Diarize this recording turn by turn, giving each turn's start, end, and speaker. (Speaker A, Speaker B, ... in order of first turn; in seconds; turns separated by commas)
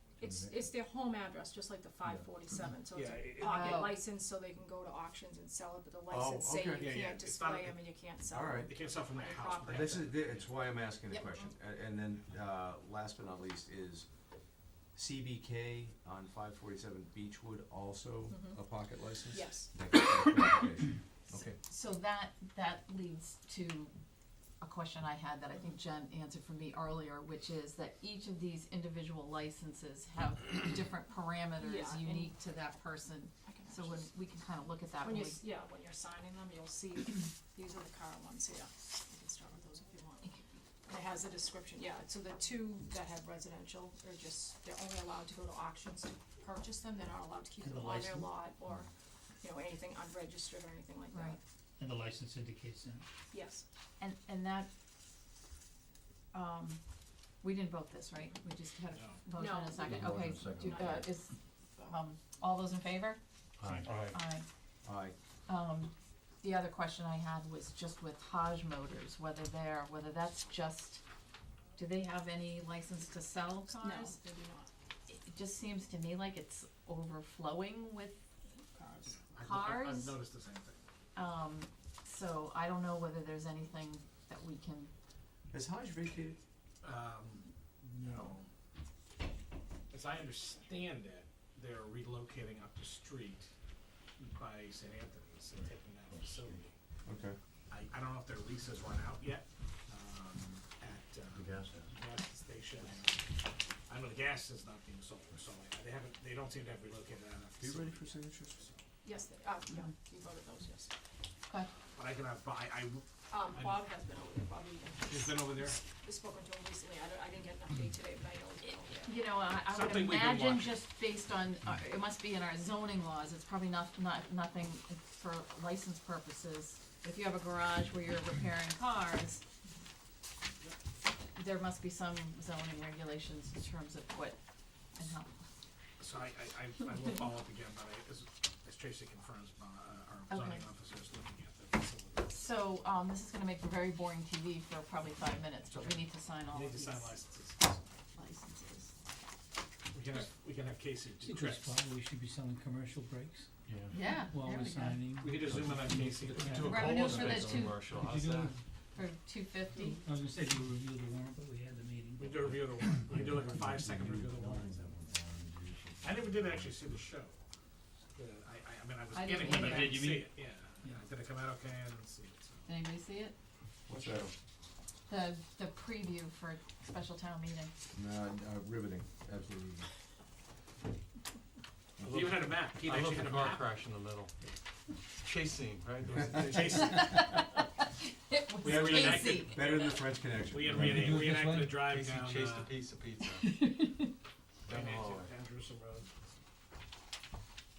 Speaker A: 0.2-10.1, Speaker B: 0.2-0.6, Speaker C: 2.9-3.9, Speaker D: 3.4-4.0, Speaker B: 6.1-7.0, Speaker C: 6.8-7.9, Speaker B: 8.3-8.7, Speaker C: 8.6-10.5, Speaker B: 9.7-14.1, Speaker A: 11.1-11.5, Speaker B: 14.9-21.6, Speaker A: 18.3-18.6, Speaker A: 19.3-19.7, Speaker D: 21.6-23.9, Speaker D: 24.6-35.4, Speaker A: 31.6-32.3, Speaker A: 33.5-34.0, Speaker A: 35.0-40.3, Speaker A: 40.9-48.9, Speaker E: 47.6-48.4, Speaker A: 49.4-51.4, Speaker D: 51.1-51.4, Speaker E: 51.8-53.0, Speaker A: 53.3-53.6, Speaker D: 54.0-54.7, Speaker D: 56.3-56.8, Speaker D: 57.4-63.2, Speaker C: 58.9-59.2, Speaker A: 59.3-60.1, Speaker B: 59.8-61.1, Speaker A: 60.6-61.0, Speaker F: 63.7-64.2, Speaker D: 64.0-64.4, Speaker B: 64.8-65.1, Speaker D: 65.5-71.0, Speaker D: 71.8-74.2, Speaker A: 73.7-74.7, Speaker D: 75.1-78.2, Speaker A: 78.6-79.2, Speaker C: 79.2-80.8, Speaker D: 79.4-80.2, Speaker D: 81.2-84.9, Speaker B: 85.5-86.4, Speaker C: 86.8-88.5, Speaker C: 89.9-93.5, Speaker C: 94.2-96.7, Speaker B: 97.0-97.4, Speaker C: 97.7-103.3, Speaker B: 101.5-101.8, Speaker C: 103.9-108.9, Speaker B: 107.6-108.6, Speaker A: 109.0-110.9, Speaker C: 111.9-113.8, Speaker A: 113.3-119.1, Speaker C: 115.1-115.8, Speaker D: 118.6-129.4, Speaker C: 119.7-120.8, Speaker D: 131.3-134.4, Speaker D: 134.9-135.3, Speaker C: 136.0-142.4, Speaker D: 140.3-140.6, Speaker D: 142.2-147.2, Speaker C: 145.6-147.8, Speaker D: 148.1-148.9, Speaker C: 149.9-151.8, Speaker E: 151.2-153.5, Speaker D: 153.9-155.0, Speaker E: 154.0-158.6, Speaker C: 155.2-157.0, Speaker F: 156.4-158.6, Speaker D: 156.6-157.8, Speaker D: 158.9-160.0, Speaker E: 159.7-163.7, Speaker C: 162.2-165.1, Speaker B: 163.1-166.6, Speaker C: 166.0-167.4, Speaker C: 168.1-172.7, Speaker D: 169.1-170.0, Speaker E: 169.4-170.3, Speaker D: 172.7-173.3, Speaker B: 173.9-174.3, Speaker D: 175.1-177.7, Speaker B: 177.9-179.9, Speaker F: 182.0-184.3, Speaker C: 182.1-183.7, Speaker F: 185.2-186.9, Speaker B: 186.2-186.8, Speaker C: 186.4-186.8, Speaker D: 186.8-189.9, Speaker C: 188.6-189.8, Speaker B: 188.6-191.3, Speaker C: 190.5-192.8, Speaker E: 190.7-191.6, Speaker F: 191.1-193.4, Speaker D: 193.3-194.1, Speaker F: 194.7-195.3, Speaker C: 194.7-196.1